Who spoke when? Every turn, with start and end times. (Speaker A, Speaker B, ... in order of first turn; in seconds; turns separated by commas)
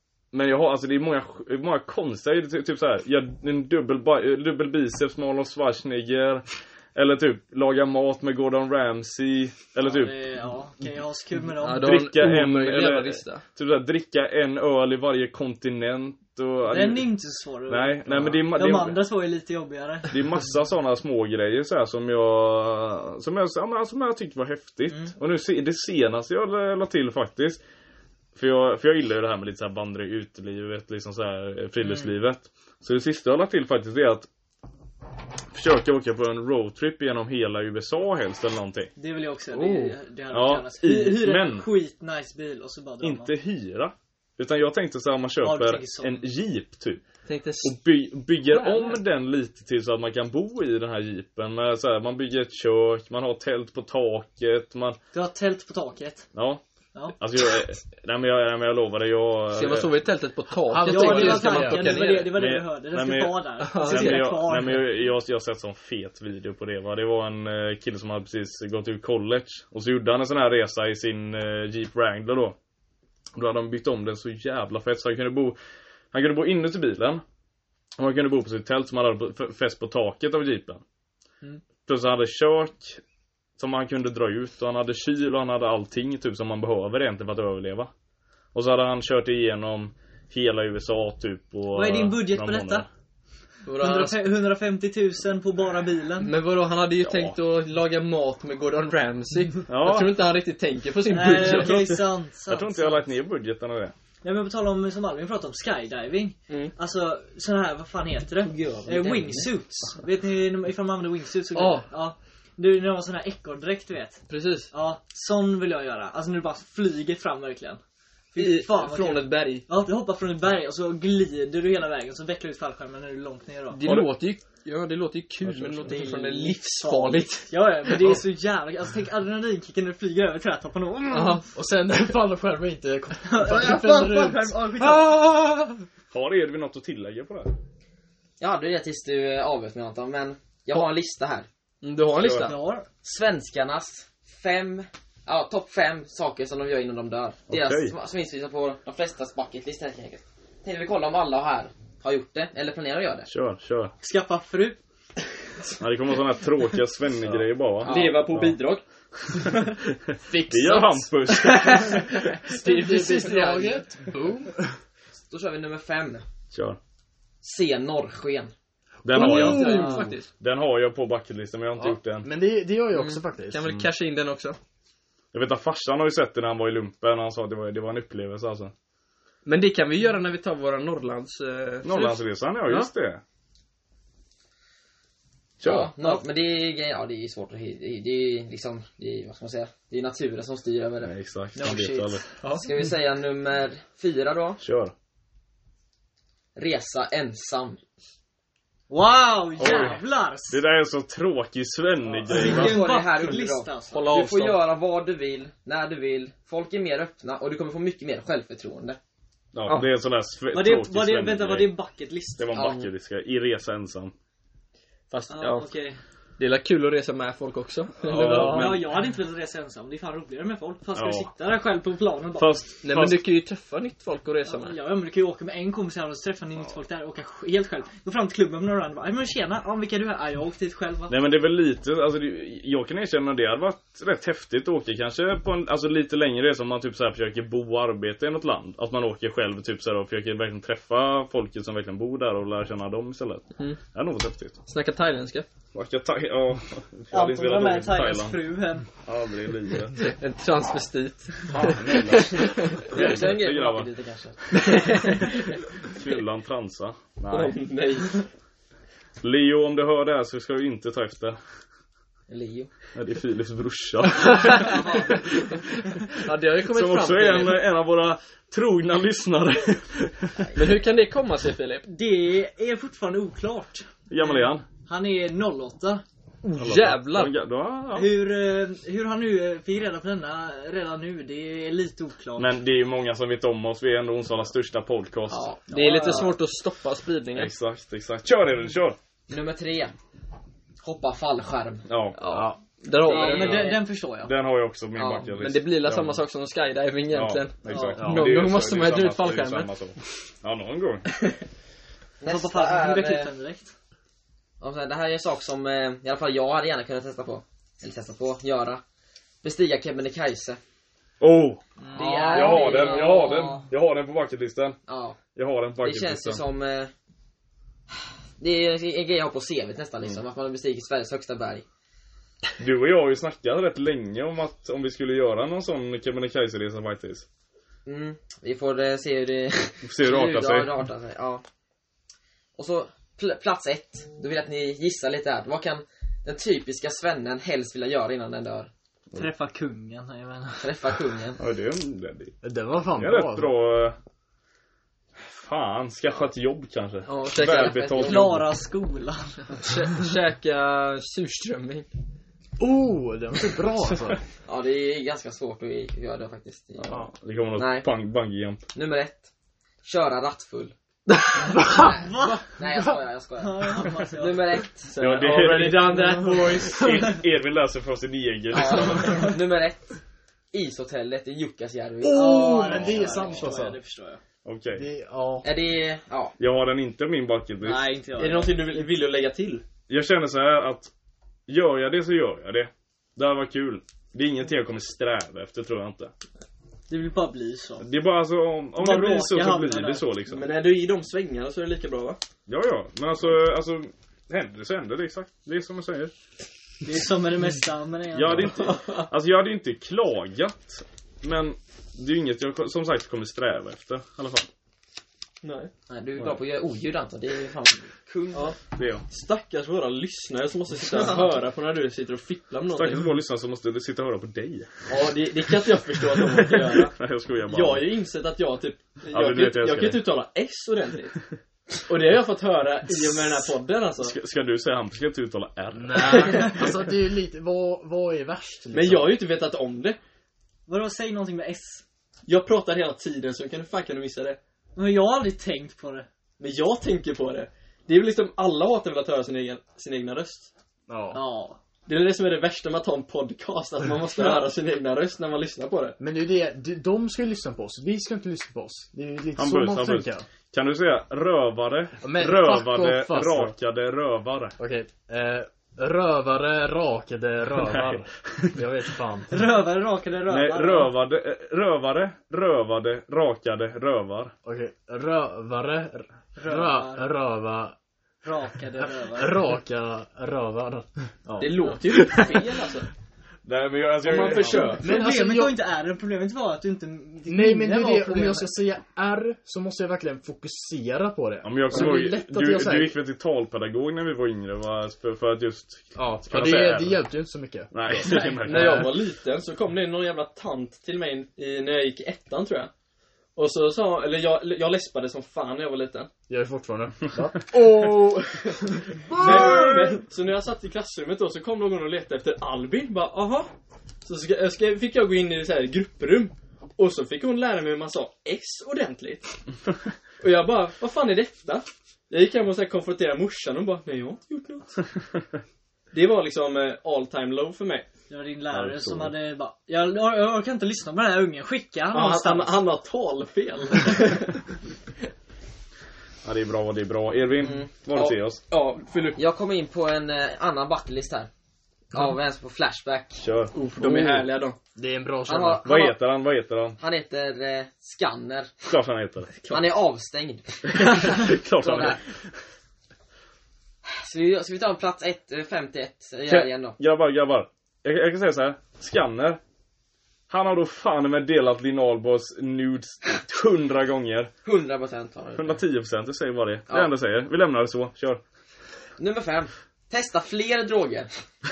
Speaker A: 0.3-10.1, Speaker B: 9.8-12.1, Speaker C: 11.6-13.4, Speaker A: 11.8-17.1, Speaker B: 16.7-20.4, Speaker A: 17.7-19.0, Speaker A: 20.1-27.6, Speaker A: 28.4-34.3, Speaker A: 35.5-38.9, Speaker B: 39.0-43.3, Speaker D: 39.5-40.0, Speaker A: 40.3-41.7, Speaker A: 43.0-47.0, Speaker B: 45.4-46.2, Speaker C: 47.3-47.8, Speaker A: 47.6-55.0, Speaker C: 48.5-49.0, Speaker B: 55.1-56.3, Speaker A: 56.3-56.6, Speaker A: 57.1-59.9, Speaker C: 59.5-62.4, Speaker D: 60.7-62.0, Speaker B: 60.8-64.9, Speaker A: 62.3-72.6, Speaker C: 63.6-64.3, Speaker A: 73.3-75.6, Speaker A: 76.1-77.2, Speaker A: 78.0-80.8, Speaker A: 81.8-83.0, Speaker A: 83.6-87.9, Speaker A: 88.5-92.8, Speaker B: 91.7-92.9, Speaker C: 93.7-94.2, Speaker B: 93.7-96.3, Speaker C: 96.2-101.9, Speaker A: 97.0-97.4, Speaker A: 99.7-100.2, Speaker B: 101.1-103.1, Speaker A: 101.5-103.9, Speaker B: 104.2-117.8, Speaker E: 108.4-109.5, Speaker C: 111.5-111.9, Speaker C: 114.3-114.7, Speaker B: 118.3-123.8, Speaker C: 118.4-119.7, Speaker C: 123.7-127.9, Speaker A: 125.4-125.9, Speaker B: 125.9-131.4, Speaker C: 131.1-131.4, Speaker D: 131.6-135.8, Speaker B: 133.2-135.3, Speaker A: 136.1-137.5, Speaker E: 138.4-141.5, Speaker C: 141.8-142.6, Speaker A: 142.2-142.6, Speaker B: 142.3-142.9, Speaker E: 143.0-153.3, Speaker A: 147.5-147.9, Speaker A: 153.3-153.9, Speaker B: 154.0-154.8, Speaker A: 155.8-158.6, Speaker D: 157.2-157.5, Speaker E: 157.8-158.3, Speaker C: 157.8-158.8, Speaker A: 159.3-162.1, Speaker D: 160.2-161.1, Speaker C: 161.3-163.8, Speaker D: 161.9-164.8, Speaker E: 165.3-166.2, Speaker A: 166.5-166.8, Speaker E: 167.4-168.5, Speaker A: 169.0-172.3, Speaker D: 169.1-170.2, Speaker C: 169.1-170.3, Speaker D: 171.8-173.6, Speaker E: 172.9-173.2, Speaker C: 173.5-174.6, Speaker A: 175.3-178.7, Speaker C: 179.4-182.9, Speaker A: 181.8-183.2, Speaker A: 185.6-185.9, Speaker E: 185.6-191.1, Speaker A: 191.0-192.2, Speaker B: 191.6-192.6, Speaker E: 192.6-194.6, Speaker A: 194.6-194.9, Speaker E: 196.6-197.8, Speaker B: 198.9-200.6, Speaker A: 199.6-202.8, Speaker B: 202.1-204.1, Speaker E: 202.3-209.0, Speaker C: 203.9-204.6, Speaker A: 209.5-211.7, Speaker B: 210.5-212.6, Speaker A: 212.4-214.1, Speaker E: 212.5-212.9, Speaker C: 215.1-215.7, Speaker B: 215.3-216.0, Speaker C: 216.4-218.9, Speaker A: 218.1-218.8, Speaker B: 218.1-222.6, Speaker D: 218.3-218.7, Speaker A: 220.9-221.3, Speaker A: 222.4-223.2, Speaker C: 222.8-224.8, Speaker B: 224.5-231.1, Speaker A: 231.1-244.6, Speaker C: 244.7-245.5, Speaker A: 245.7-248.4, Speaker B: 247.1-248.9, Speaker A: 249.0-250.0, Speaker C: 250.0-253.0, Speaker A: 251.5-253.9, Speaker E: 252.9-254.4, Speaker A: 254.5-254.9, Speaker C: 254.6-255.4, Speaker A: 255.9-257.6, Speaker C: 257.3-258.3, Speaker A: 259.2-261.4, Speaker E: 262.3-262.7, Speaker A: 262.9-266.1, Speaker E: 264.6-265.3, Speaker C: 266.1-267.6, Speaker A: 266.7-270.5, Speaker C: 270.6-271.9, Speaker B: 271.9-276.0, Speaker A: 274.1-274.7, Speaker C: 276.4-277.3, Speaker A: 276.6-278.1, Speaker B: 277.9-282.5, Speaker A: 282.4-285.5, Speaker E: 285.3-286.3, Speaker C: 285.7-287.5, Speaker B: 285.7-286.3, Speaker A: 287.4-289.0, Speaker E: 289.3-289.9, Speaker E: 290.8-292.5, Speaker A: 291.9-292.2, Speaker C: 292.2-293.7, Speaker D: 292.3-292.6, Speaker B: 293.0-294.3, Speaker E: 293.1-293.8, Speaker A: 294.2-296.2, Speaker E: 295.0-295.3, Speaker C: 295.4-299.7, Speaker A: 297.1-301.1, Speaker B: 297.7-298.1, Speaker D: 298.0-298.3, Speaker E: 302.2-303.3, Speaker B: 302.2-303.7, Speaker E: 304.6-308.8, Speaker E: 309.4-310.6, Speaker A: 311.2-311.6, Speaker B: 311.8-313.6, Speaker E: 311.9-313.6, Speaker A: 312.3-314.8, Speaker E: 314.9-315.2, Speaker A: 315.4-316.4, Speaker E: 315.8-316.9, Speaker E: 318.4-321.6, Speaker A: 322.6-327.3, Speaker E: 327.9-331.4, Speaker A: 329.8-330.7, Speaker E: 332.6-338.7, Speaker B: 339.1-340.7, Speaker E: 340.6-341.4, Speaker A: 341.4-342.4, Speaker D: 342.4-343.5, Speaker A: 343.0-344.0, Speaker A: 345.2-348.5, Speaker E: 347.1-348.4, Speaker C: 347.1-347.8, Speaker B: 348.0-349.7, Speaker C: 349.6-351.9, Speaker D: 352.6-354.2, Speaker E: 354.5-357.1, Speaker A: 356.9-358.6, Speaker E: 357.6-357.9, Speaker E: 358.7-359.3, Speaker E: 359.8-360.8, Speaker C: 361.1-361.6, Speaker E: 361.6-364.9, Speaker B: 361.7-362.5, Speaker B: 363.4-364.6, Speaker C: 364.9-366.9, Speaker A: 365.0-369.3, Speaker B: 366.8-367.1, Speaker E: 368.5-370.0, Speaker B: 369.0-369.3, Speaker E: 370.5-373.3, Speaker D: 372.0-373.8, Speaker B: 372.1-374.2, Speaker A: 374.4-374.9, Speaker D: 374.8-375.5, Speaker E: 375.4-376.4, Speaker A: 376.4-377.9, Speaker B: 377.6-378.7, Speaker C: 378.2-379.6, Speaker A: 379.9-380.9, Speaker A: 381.5-386.1, Speaker B: 386.9-387.9, Speaker A: 387.8-390.4, Speaker B: 388.8-390.1, Speaker C: 390.3-392.2, Speaker A: 392.5-396.1, Speaker B: 396.8-398.8, Speaker A: 398.1-404.5, Speaker C: 398.7-399.1, Speaker C: 405.4-405.7, Speaker E: 405.9-408.5, Speaker A: 408.7-409.1, Speaker C: 409.1-413.1, Speaker E: 411.0-411.2, Speaker A: 412.7-414.7, Speaker C: 414.9-421.2, Speaker A: 416.2-417.9, Speaker A: 419.1-420.0, Speaker C: 421.9-424.2, Speaker A: 424.0-426.5, Speaker D: 425.8-429.1, Speaker C: 428.7-430.0, Speaker B: 430.7-431.8, Speaker C: 432.3-434.4, Speaker B: 434.8-436.1, Speaker C: 436.4-440.5, Speaker D: 440.9-441.2, Speaker B: 441.1-441.6, Speaker C: 441.9-446.0, Speaker D: 446.0-450.2, Speaker A: 449.4-454.6, Speaker D: 452.0-453.6, Speaker D: 454.6-459.3, Speaker A: 457.6-458.6, Speaker B: 459.3-460.9, Speaker A: 460.3-464.3, Speaker D: 464.4-467.8, Speaker B: 466.4-467.1, Speaker B: 468.2-469.4, Speaker D: 468.8-471.6, Speaker C: 471.4-472.9, Speaker A: 471.9-472.4, Speaker A: 473.4-474.8, Speaker C: 474.0-474.8, Speaker B: 474.2-478.5, Speaker D: 474.8-475.6, Speaker D: 477.3-483.0, Speaker A: 481.4-487.0, Speaker D: 486.0-489.0, Speaker A: 487.7-489.0, Speaker C: 488.4-492.7, Speaker C: 493.4-496.1, Speaker D: 496.3-498.4, Speaker C: 497.6-503.5, Speaker D: 499.1-499.7, Speaker A: 499.2-499.9, Speaker C: 504.1-509.4, Speaker C: 510.2-514.8, Speaker C: 515.9-517.9, Speaker B: 518.1-522.6, Speaker A: 518.5-519.1, Speaker C: 521.9-524.4, Speaker A: 526.2-528.4, Speaker C: 528.0-529.2, Speaker E: 529.2-531.3, Speaker E: 531.9-533.2, Speaker A: 533.2-534.1, Speaker C: 533.5-534.6, Speaker D: 534.8-535.7, Speaker E: 535.3-536.0, Speaker A: 535.6-536.8, Speaker E: 536.8-538.5, Speaker A: 538.7-539.3, Speaker E: 539.5-542.0, Speaker A: 540.7-542.2, Speaker E: 543.9-546.8, Speaker A: 546.3-549.4, Speaker A: 550.3-554.3, Speaker E: 554.4-555.6, Speaker A: 555.4-558.2, Speaker E: 559.0-561.1